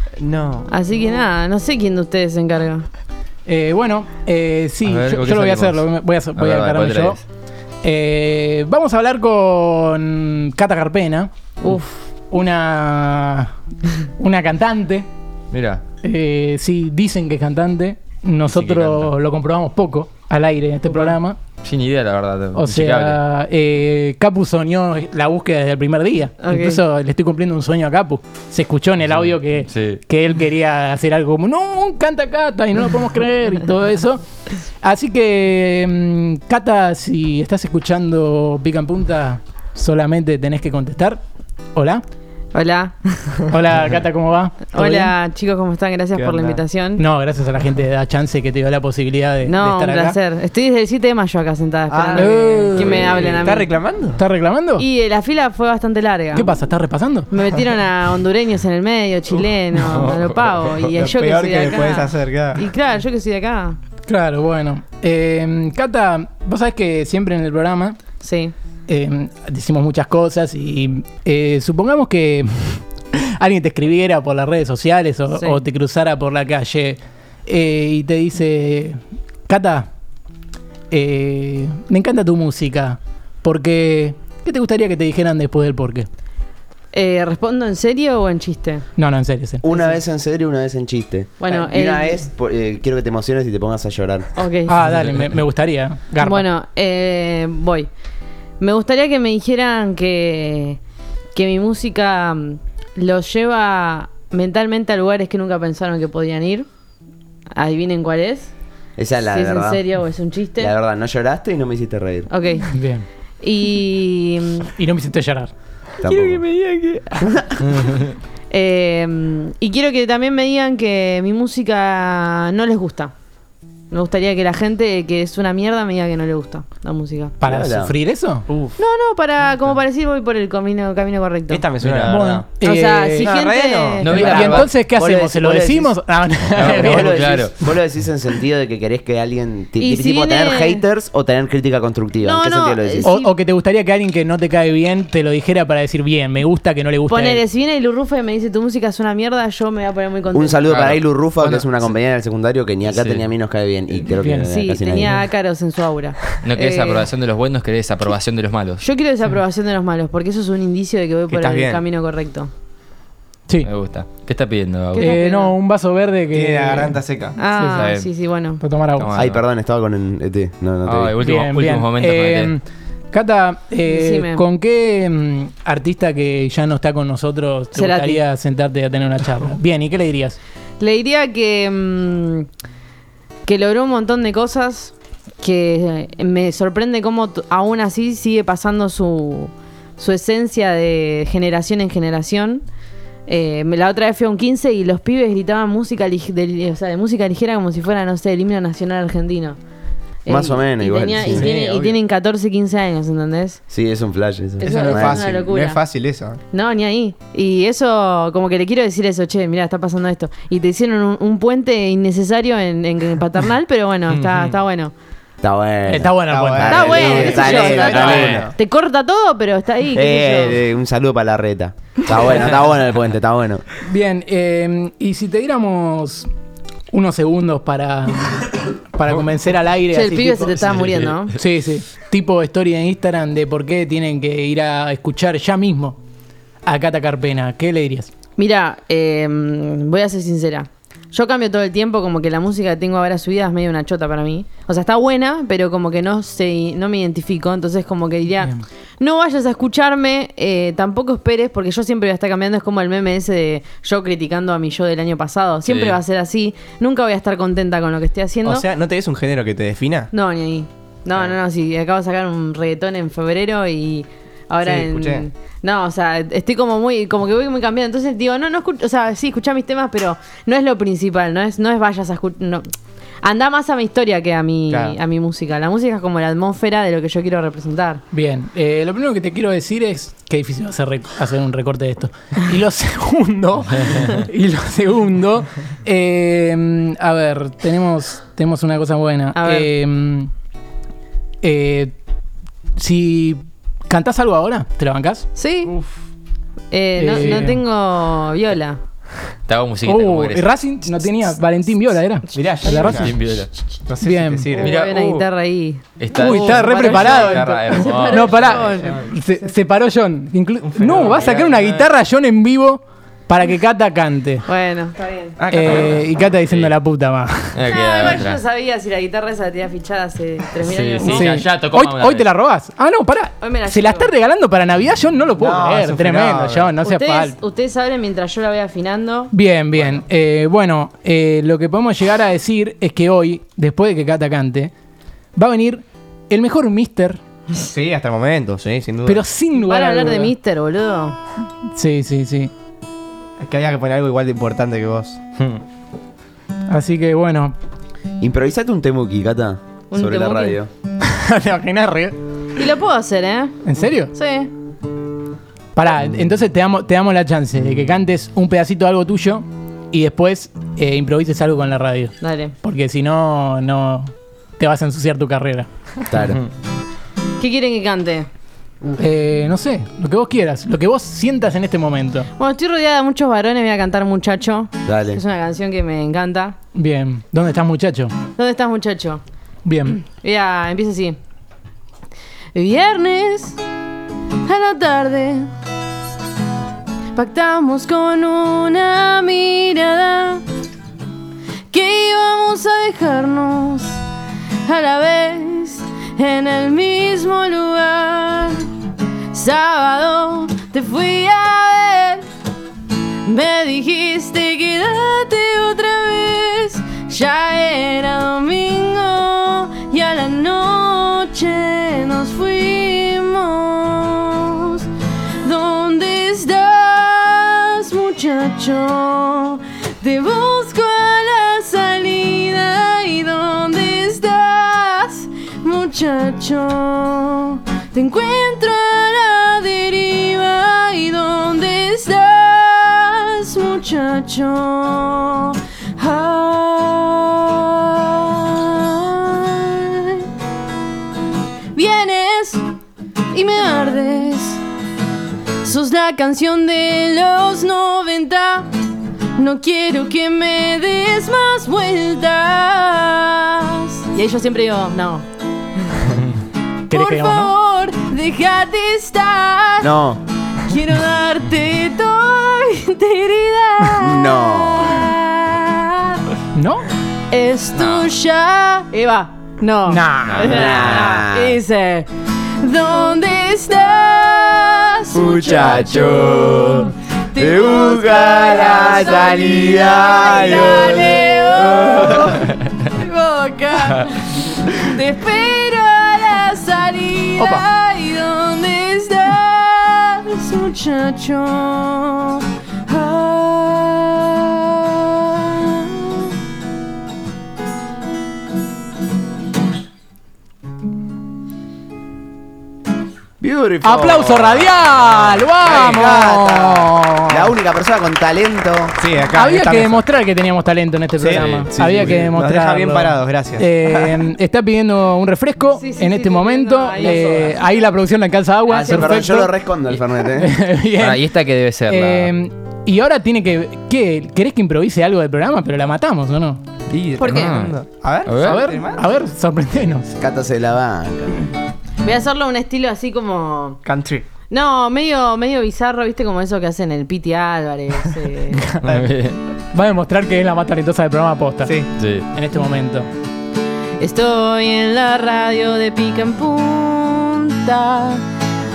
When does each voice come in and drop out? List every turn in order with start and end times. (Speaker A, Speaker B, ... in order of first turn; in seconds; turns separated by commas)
Speaker A: 0.2-0.7, Speaker B: 0.7-2.9, Speaker C: 3.5-7.2, Speaker D: 4.8-7.2, Speaker C: 7.8-11.3, Speaker B: 11.6-12.1, Speaker C: 12.3-13.5, Speaker C: 14.2-15.1, Speaker D: 15.5-15.8, Speaker C: 16.0-21.4, Speaker D: 18.5-19.1, Speaker B: 20.9-21.1, Speaker D: 21.6-23.2, Speaker C: 22.5-34.2, Speaker B: 26.4-26.8, Speaker D: 29.6-30.0, Speaker C: 34.8-41.2, Speaker C: 41.8-42.0, Speaker B: 42.5-43.5, Speaker C: 43.5-45.1, Speaker B: 44.7-47.0, Speaker A: 46.1-46.6, Speaker C: 47.0-50.2, Speaker B: 49.4-53.7, Speaker A: 51.9-54.2, Speaker C: 52.2-53.0, Speaker D: 52.8-53.4, Speaker C: 54.2-54.9, Speaker B: 54.8-56.6, Speaker C: 56.3-57.3, Speaker B: 57.3-63.8, Speaker D: 59.7-60.8, Speaker A: 60.8-62.6, Speaker C: 64.1-68.0, Speaker B: 68.2-68.5, Speaker C: 68.9-79.9, Speaker B: 75.3-75.6, Speaker C: 80.9-86.1, Speaker B: 86.9-88.9, Speaker C: 89.0-89.6, Speaker E: 89.6-94.3, Speaker B: 91.4-92.2, Speaker B: 94.3-94.8, Speaker C: 94.7-96.5, Speaker B: 96.2-97.9, Speaker B: 98.6-100.8, Speaker B: 101.3-106.7, Speaker B: 107.5-108.5, Speaker E: 109.0-109.8, Speaker B: 109.3-110.7, Speaker E: 110.6-112.3, Speaker B: 112.3-112.7, Speaker C: 112.7-113.1, Speaker B: 113.4-114.7, Speaker C: 114.8-115.5, Speaker E: 116.0-116.4, Speaker B: 116.0-117.2, Speaker E: 117.2-117.6, Speaker D: 117.7-118.1, Speaker B: 118.5-123.1, Speaker B: 123.9-127.4, Speaker C: 127.4-128.5, Speaker E: 127.4-127.9, Speaker A: 128.5-128.7, Speaker B: 128.8-131.6, Speaker A: 131.5-132.5, Speaker D: 131.8-132.2, Speaker C: 131.8-133.4, Speaker B: 132.6-134.5, Speaker A: 133.2-134.5, Speaker D: 134.0-134.8, Speaker C: 134.1-137.2, Speaker E: 134.8-136.0, Speaker D: 136.5-137.6, Speaker E: 136.6-143.1, Speaker B: 139.8-140.8, Speaker B: 142.2-143.3, Speaker C: 143.0-147.4, Speaker B: 147.1-150.6, Speaker E: 150.3-155.2, Speaker D: 150.7-151.9, Speaker D: 152.9-153.3, Speaker C: 154.1-154.5, Speaker B: 154.4-157.1, Speaker D: 156.4-158.8, Speaker B: 158.8-162.5, Speaker A: 161.3-161.8, Speaker D: 163.6-165.1, Speaker B: 164.9-165.5, Speaker C: 165.0-167.8, Speaker A: 166.3-167.4, Speaker B: 167.4-168.6, Speaker D: 167.6-168.1, Speaker C: 168.6-169.2, Speaker D: 169.0-169.4, Speaker E: 169.2-171.1, Speaker D: 170.8-172.5, Speaker C: 171.2-180.4, Speaker B: 173.8-174.4, Speaker B: 177.7-178.2, Speaker B: 180.8-182.5, Speaker B: 183.5-192.7, Speaker B: 193.3-199.6, Speaker B: 200.2-203.6, Speaker E: 200.3-201.5, Speaker A: 201.3-202.0, Speaker E: 203.7-205.2, Speaker B: 204.6-205.8, Speaker A: 204.6-206.4, Speaker B: 206.5-214.9, Speaker E: 215.4-218.0, Speaker C: 215.9-218.4, Speaker A: 216.3-218.5, Speaker B: 216.6-220.6, Speaker D: 217.9-218.5, Speaker E: 219.9-223.6, Speaker C: 223.8-226.3, Speaker C: 226.9-230.5, Speaker B: 229.9-231.3, Speaker D: 230.6-231.2, Speaker C: 231.3-236.0, Speaker C: 236.7-238.1, Speaker B: 238.4-258.6, Speaker D: 255.7-256.0, Speaker A: 258.4-260.1, Speaker B: 260.1-272.7, Speaker A: 264.6-265.3, Speaker B: 273.2-278.0, Speaker A: 274.7-275.0, Speaker C: 278.1-290.3, Speaker B: 289.4-289.7, Speaker C: 291.4-291.9, Speaker C: 292.8-295.3, Speaker B: 295.4-295.7, Speaker A: 295.7-295.9, Speaker B: 296.7-298.8, Speaker C: 297.0-297.6, Speaker D: 299.5-300.5, Speaker C: 299.8-303.1, Speaker A: 302.3-303.1, Speaker B: 302.7-302.9, Speaker D: 302.9-303.5, Speaker A: 303.9-304.7, Speaker C: 304.0-304.5, Speaker B: 304.6-309.0, Speaker D: 304.6-305.3, Speaker D: 306.0-308.7, Speaker C: 306.1-314.4, Speaker A: 308.8-309.1, Speaker A: 310.7-311.9, Speaker B: 314.5-315.4, Speaker A: 315.4-316.1, Speaker C: 315.5-317.6, Speaker D: 316.4-316.7, Speaker D: 317.6-318.4, Speaker B: 317.7-321.3, Speaker D: 320.6-322.3, Speaker C: 321.0-327.4, Speaker B: 323.4-324.1, Speaker A: 325.4-326.7, Speaker B: 326.8-329.3, Speaker C: 329.3-334.7, Speaker C: 335.4-337.2, Speaker A: 337.6-339.2, Speaker C: 339.1-340.3, Speaker B: 339.5-341.2, Speaker C: 341.7-342.5, Speaker A: 343.4-345.6, Speaker C: 346.7-347.6, Speaker E: 348.2-350.7, Speaker B: 349.9-350.6, Speaker C: 351.0-352.2, Speaker B: 352.6-354.5, Speaker C: 353.6-354.1, Speaker C: 355.8-365.7, Speaker B: 362.2-362.6, Speaker E: 366.1-366.4, Speaker B: 367.4-368.3, Speaker C: 369.0-372.3, Speaker B: 372.4-376.6, Speaker E: 374.9-375.2, Speaker C: 376.7-378.1, Speaker B: 378.4-379.2, Speaker C: 379.6-380.0, Speaker B: 379.9-381.2, Speaker B: 382.5-383.6, Speaker B: 384.4-385.5, Speaker B: 387.1-390.4, Speaker B: 391.7-394.0, Speaker B: 394.6-398.7, Speaker B: 399.3-402.2, Speaker B: 403.2-414.9, Speaker B: 415.4-440.3, Speaker B: 441.7-442.7, Speaker B: 443.3-444.6, Speaker B: 445.6-448.7, Speaker B: 449.4-455.3, Speaker C: 456.9-457.5, Speaker B: 456.9-459.9, Speaker E: 459.8-460.2, Speaker B: 460.6-466.2, Speaker E: 464.0-465.0, Speaker C: 466.6-466.9, Speaker B: 467.3-496.3, Speaker D: 467.7-468.1, Speaker C: 469.9-470.5, Speaker D: 470.3-471.1, Speaker E: 470.4-471.6, Speaker E: 475.1-482.4, Speaker C: 487.4-487.7, Speaker E: 503.4-504.7, Speaker C: 503.8-507.5, Speaker A: 505.2-506.8, Speaker E: 505.8-506.4, Speaker E: 507.3-509.0, Speaker A: 509.0-510.1, Speaker C: 509.3-521.3, Speaker A: 511.2-514.3, Speaker D: 511.4-511.7, Speaker B: 515.7-517.7, Speaker E: 518.7-520.5, Speaker B: 518.8-519.2, Speaker D: 521.0-522.3, Speaker C: 521.9-526.6, Speaker A: 526.9-529.1, Speaker B: 527.2-527.6, Speaker D: 527.2-528.6, Speaker C: 528.4-530.1, Speaker E: 530.2-531.4, Speaker B: 532.0-533.8, Speaker A: 533.9-534.3, Speaker B: 534.5-538.6, Speaker C: 538.5-538.9, Speaker A: 538.8-539.1, Speaker D: 538.9-539.4, Speaker C: 539.7-541.8, Speaker D: 542.0-542.3, Speaker C: 542.3-543.1, Speaker B: 544.0-548.2